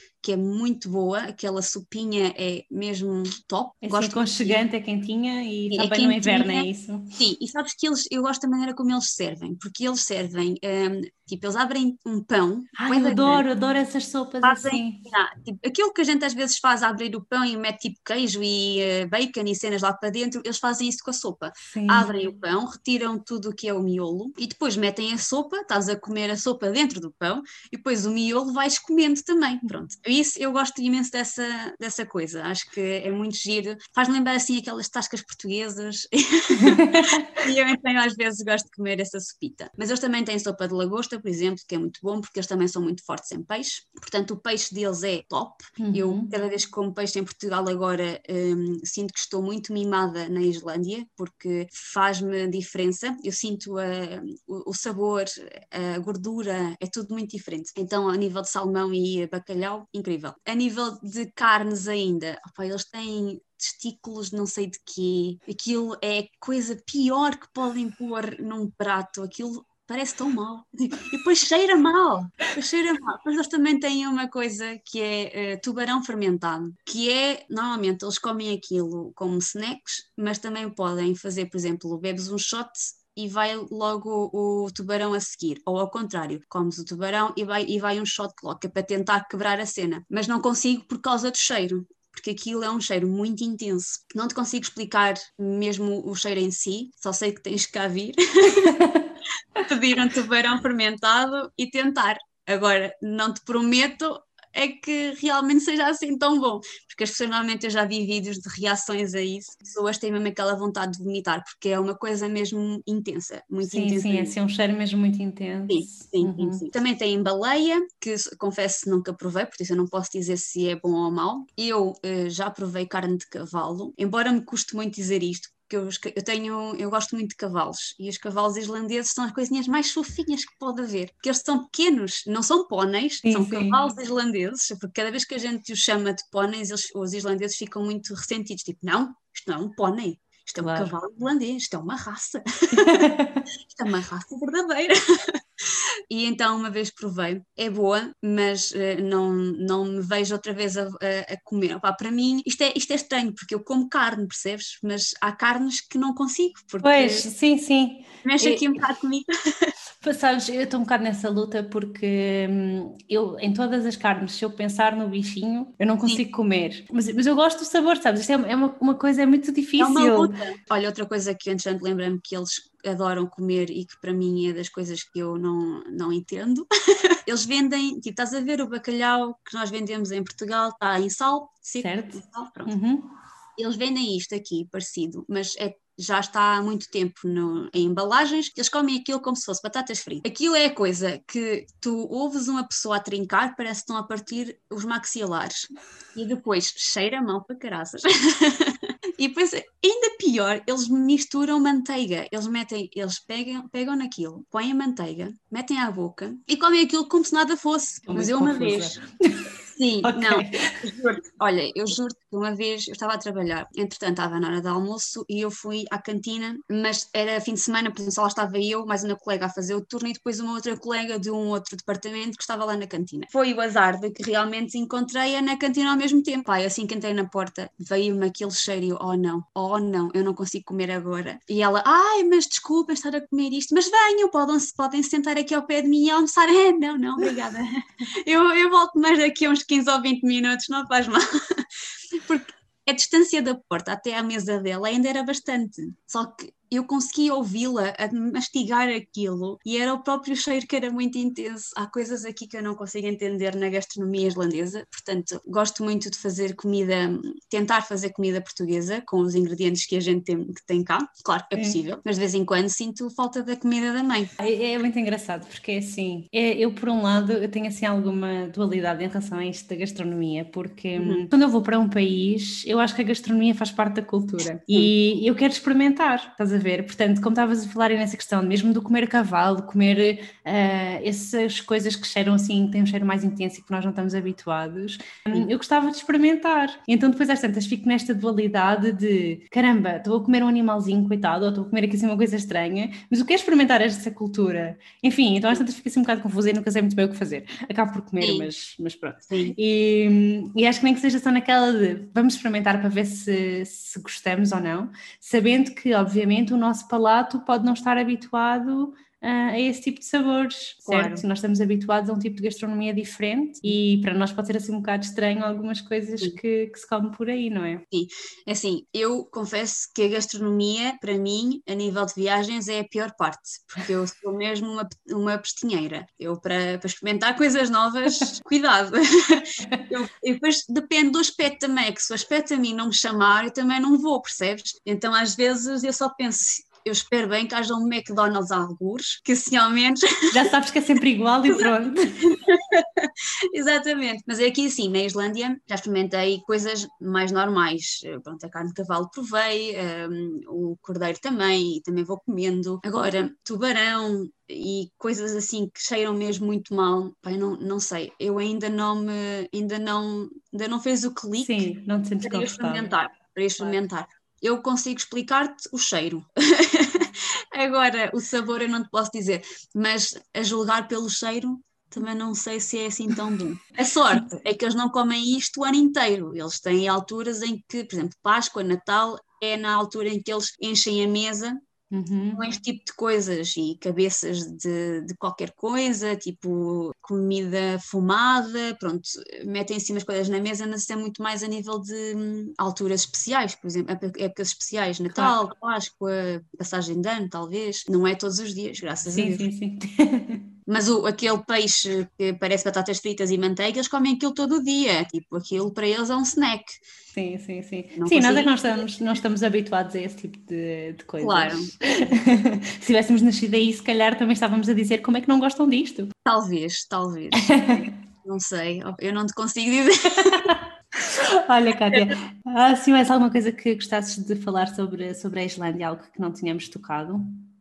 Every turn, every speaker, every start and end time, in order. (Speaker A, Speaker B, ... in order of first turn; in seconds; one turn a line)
Speaker A: 0.2-4.6
Speaker B: 3.8-7.1
Speaker A: 5.7-13.4
Speaker B: 12.8-15.1
Speaker A: 14.4-98.8
Speaker B: 21.6-22.1
Speaker B: 36.5-37.4
Speaker B: 45.8-46.3
Speaker B: 98.6-99.1
Speaker A: 99.6-114.3
Speaker B: 113.6-116.7
Speaker A: 115.7-143.1
Speaker B: 133.2-133.8
Speaker B: 140.6-140.9
Speaker B: 142.7-143.4
Speaker A: 143.7-157.3
Speaker B: 156.8-158.7
Speaker A: 158.2-159.7
Speaker B: 160.0-170.3
Speaker A: 169.8-182.7
Speaker B: 181.8-183.1
Speaker A: 183.6-195.6
Speaker A: 196.1-209.0
Speaker B: 208.1-209.5
Speaker A: 209.7-241.6
Speaker B: 210.0-210.8
Speaker A: 242.2-264.3
Speaker B: 264.4-317.8
Speaker A: 271.0-271.2
Speaker A: 298.2-298.5
Speaker A: 299.3-299.6
Speaker A: 310.8-311.2
Speaker A: 317.9-340.3
Speaker B: 340.3-342.2
Speaker A: 342.2-361.6
Speaker B: 361.4-362.9
Speaker A: 362.2-381.6
Speaker B: 381.9-382.4
Speaker A: 382.3-399.5
Speaker B: 395.1-395.4
Speaker B: 399.1-400.4
Speaker A: 400.7-406.8
Speaker B: 407.1-416.1
Speaker A: 407.9-408.9
Speaker A: 411.2-411.7
Speaker A: 416.2-420.5
Speaker B: 417.3-417.9
Speaker B: 420.2-427.2